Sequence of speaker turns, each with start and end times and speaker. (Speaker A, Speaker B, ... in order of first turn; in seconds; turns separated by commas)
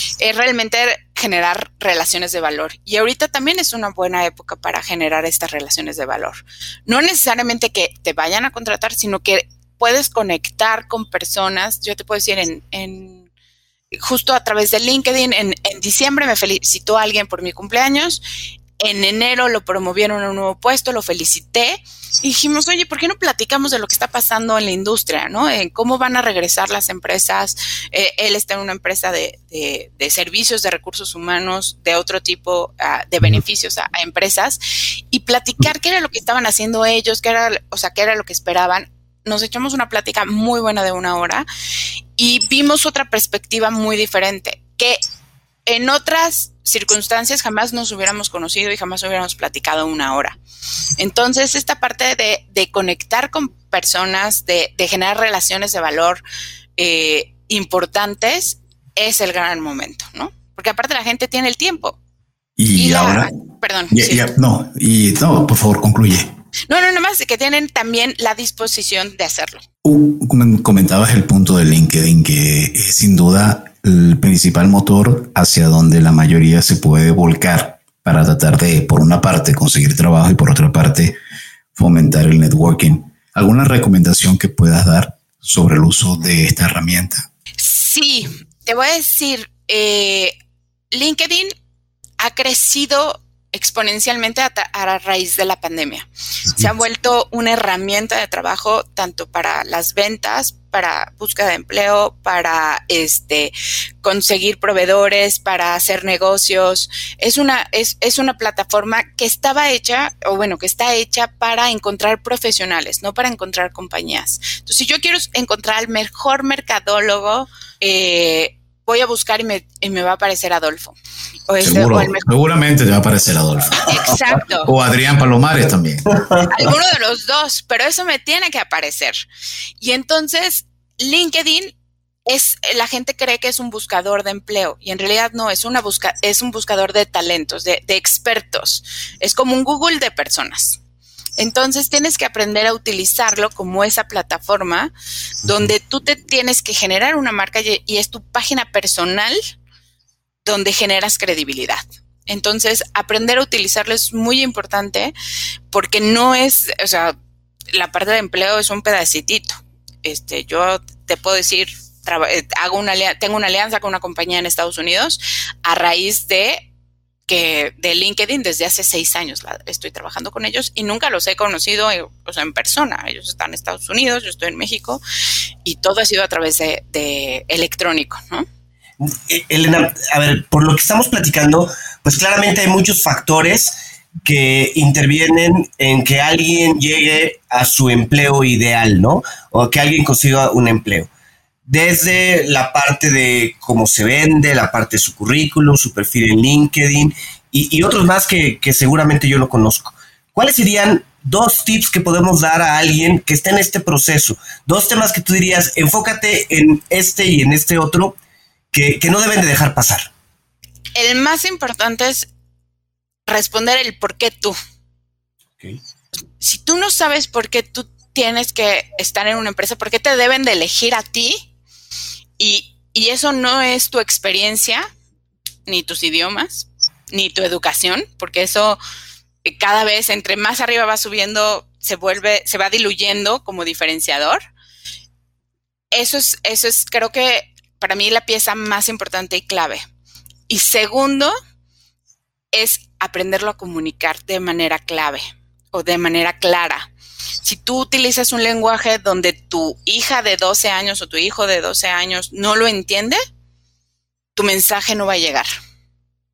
Speaker A: 0.2-13.3, Speaker A: 13.9-18.2, Speaker A: 18.8-41.5, Speaker A: 42.2-45.0, Speaker A: 45.7-50.4, Speaker A: 51.0-56.2, Speaker A: 56.8-62.0, Speaker B: 62.6-63.3, Speaker A: 62.8-64.3, Speaker B: 63.9-66.3, Speaker A: 66.7-69.6, Speaker B: 69.8-81.2, Speaker B: 81.7-87.3, Speaker A: 87.6-90.3, Speaker A: 90.9-91.5, Speaker A: 92.2-121.0, Speaker A: 121.5-122.2, Speaker B: 121.6-126.2, Speaker A: 123.9-124.7, Speaker A: 126.5-129.2, Speaker A: 129.8-131.7, Speaker A: 132.3-140.8, Speaker A: 141.4-144.9, Speaker A: 145.4-149.4, Speaker A: 150.4-155.1, Speaker A: 155.7-157.2, Speaker A: 157.7-166.6, Speaker A: 167.3-175.0, Speaker A: 175.6-178.4, Speaker C: 179.0-191.1, Speaker C: 191.7-208.2, Speaker C: 208.7-210.1, Speaker A: 210.9-212.3, Speaker A: 213.3-214.6, Speaker A: 216.4-221.4, Speaker A: 222.4-224.9, Speaker A: 225.7-228.8, Speaker A: 229.4-234.4, Speaker A: 235.9-239.8, Speaker A: 240.5-241.3, Speaker A: 242.5-246.9, Speaker A: 247.4-253.2, Speaker A: 254.4-255.5